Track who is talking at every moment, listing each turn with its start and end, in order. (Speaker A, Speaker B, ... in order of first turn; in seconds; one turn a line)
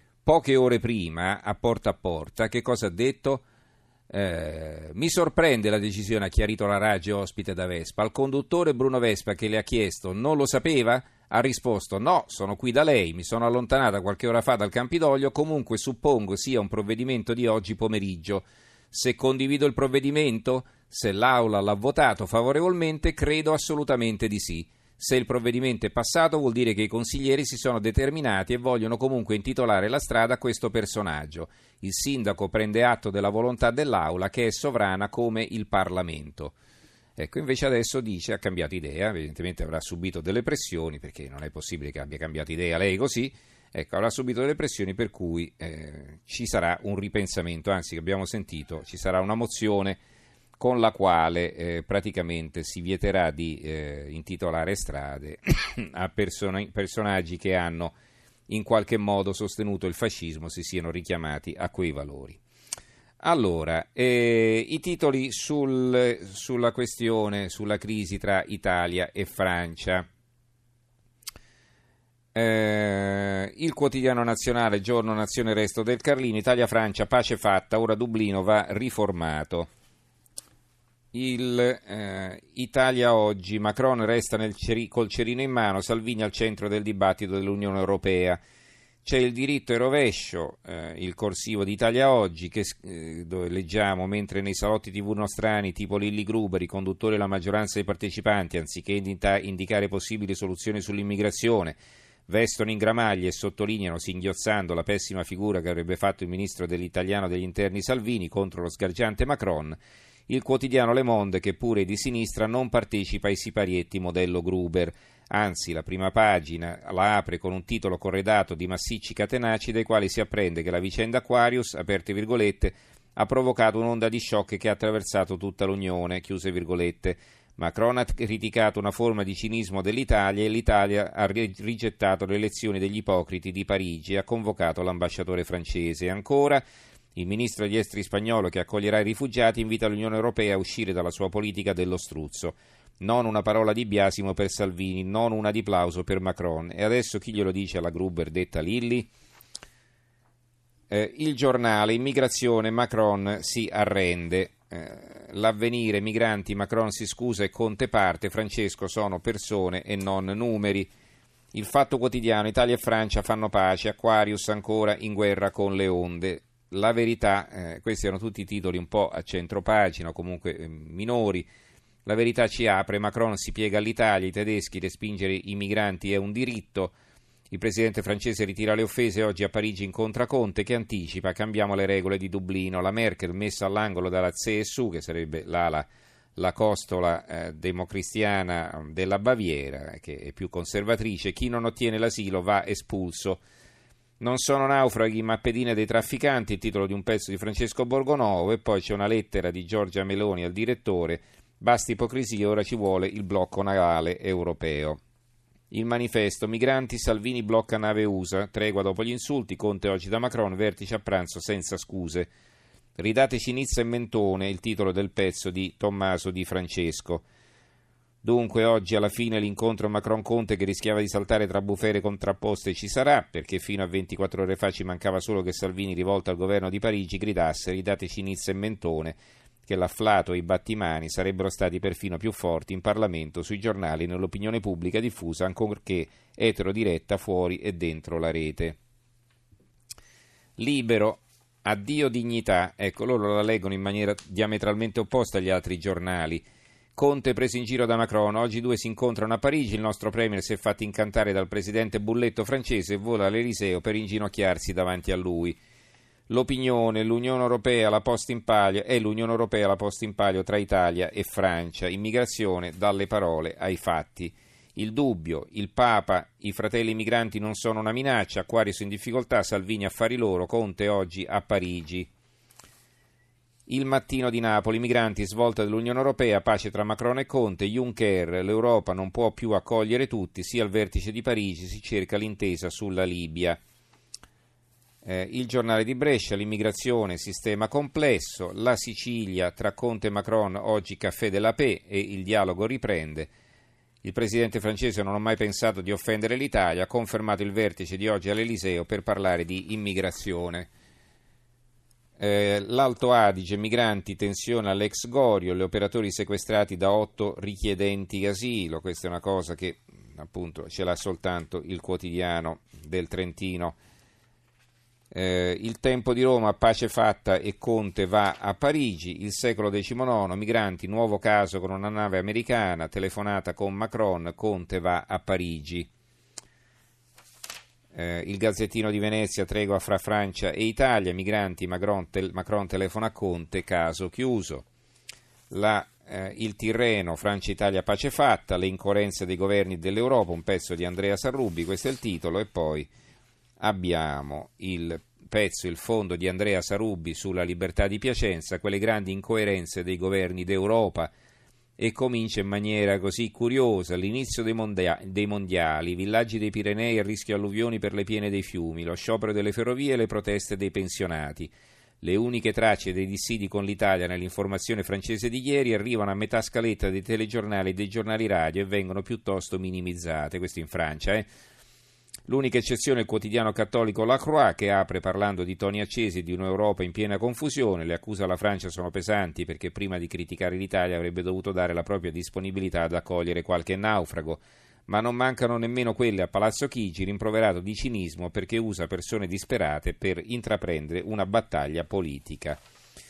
Speaker A: 0.2-3.5
Speaker A: 4.1-36.5
Speaker A: 37.2-50.0
Speaker A: 50.6-58.0
Speaker A: 58.5-62.4
Speaker A: 63.2-70.1
Speaker A: 72.3-79.7
Speaker A: 81.1-88.4
Speaker A: 89.0-101.8
Speaker A: 102.3-109.8
Speaker A: 110.3-136.6
Speaker A: 137.2-149.1
Speaker A: 150.9-160.9
Speaker A: 161.5-171.4
Speaker A: 172.0-176.9
Speaker A: 177.5-193.4
Speaker A: 194.2-205.0
Speaker A: 205.7-212.3
Speaker A: 213.0-217.2
Speaker A: 218.2-238.8
Speaker A: 240.6-246.4
Speaker A: 246.9-255.6
Speaker A: 256.3-272.1
Speaker A: 273.7-283.6
Speaker A: 285.0-293.3
Speaker A: 294.0-300.7
Speaker A: 302.2-313.8
Speaker A: 315.1-325.9
Speaker A: 327.9-334.6
Speaker A: 335.5-342.9
Speaker A: 343.6-351.1
Speaker A: 351.8-371.3
Speaker A: 372.3-392.6